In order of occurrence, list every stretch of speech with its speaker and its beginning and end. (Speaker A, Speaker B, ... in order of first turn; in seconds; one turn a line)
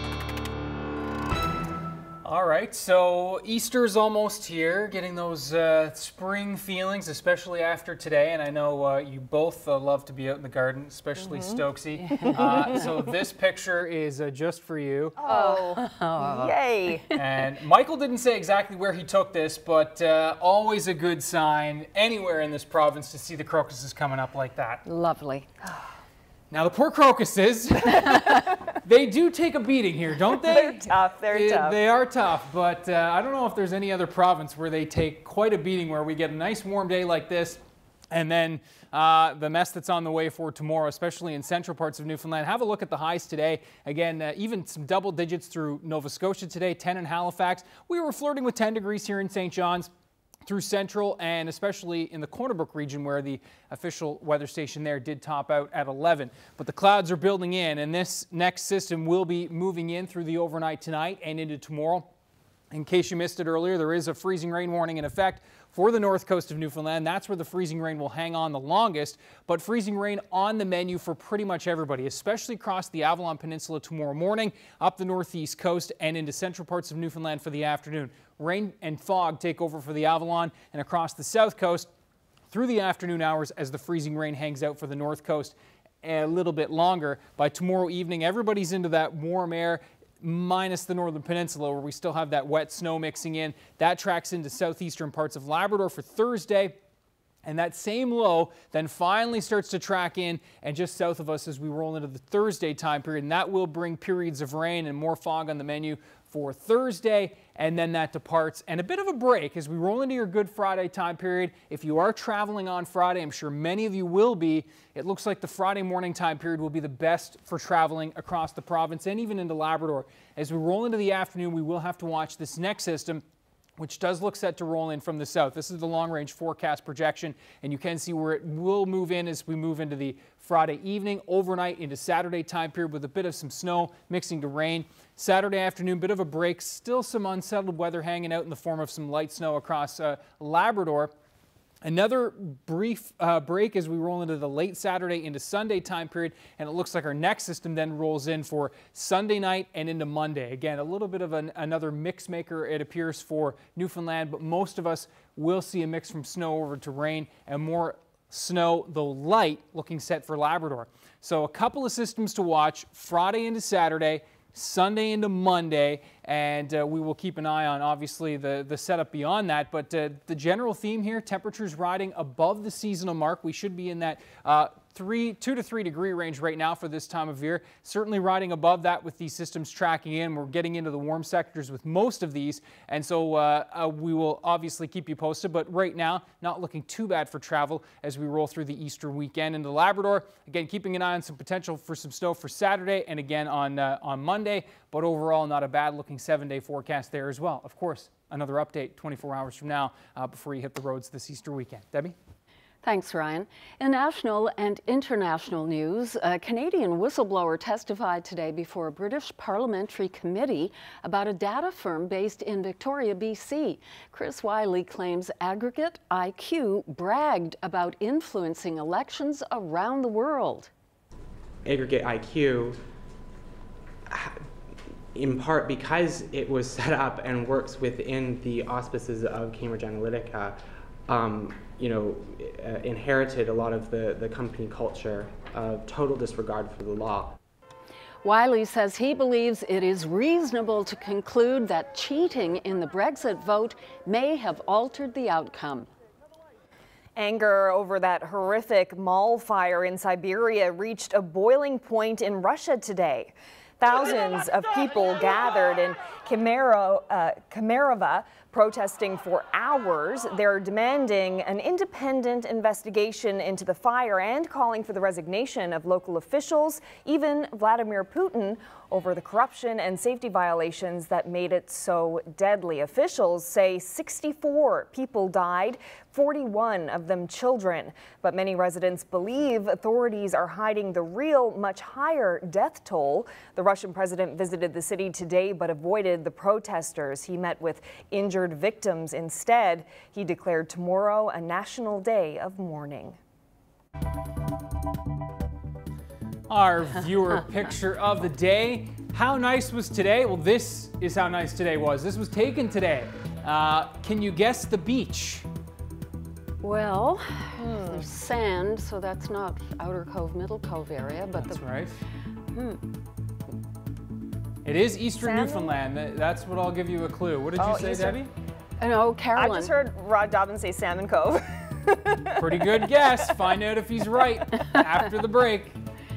Speaker A: 2.2-15.2
Speaker B: 11.2-11.6
Speaker C: 12.1-12.9
Speaker B: 12.2-12.9
Speaker B: 15.2-17.1
Speaker C: 15.2-17.1
Speaker A: 17.1-24.8
Speaker C: 24.9-25.5
Speaker A: 26.5-28.2
Speaker A: 28.8-49.9
Speaker B: 30.4-31.8
Speaker A: 50.5-62.1
Speaker A: 62.7-81.9
Speaker A: 82.5-96.8
Speaker A: 97.5-123.2
Speaker A: 123.8-141.1
Speaker A: 141.8-202.2
Speaker C: 202.8-220.7
Speaker D: 221.6-222.8
Speaker D: 224.1-224.4
Speaker D: 225.1-237.3
Speaker C: 238.2-245.9
Speaker B: 247.2-293.2
Speaker A: 296.5-305.4
Speaker C: 306.6-311.6
Speaker B: 307.6-308.1
Speaker A: 311.4-311.9
Speaker C: 312.5-312.8
Speaker A: 314.6-318.3
Speaker B: 315.2-315.8
Speaker B: 317.6-318.2
Speaker C: 318.8-319.7
Speaker B: 319.3-322.6
Speaker A: 322.4-325.8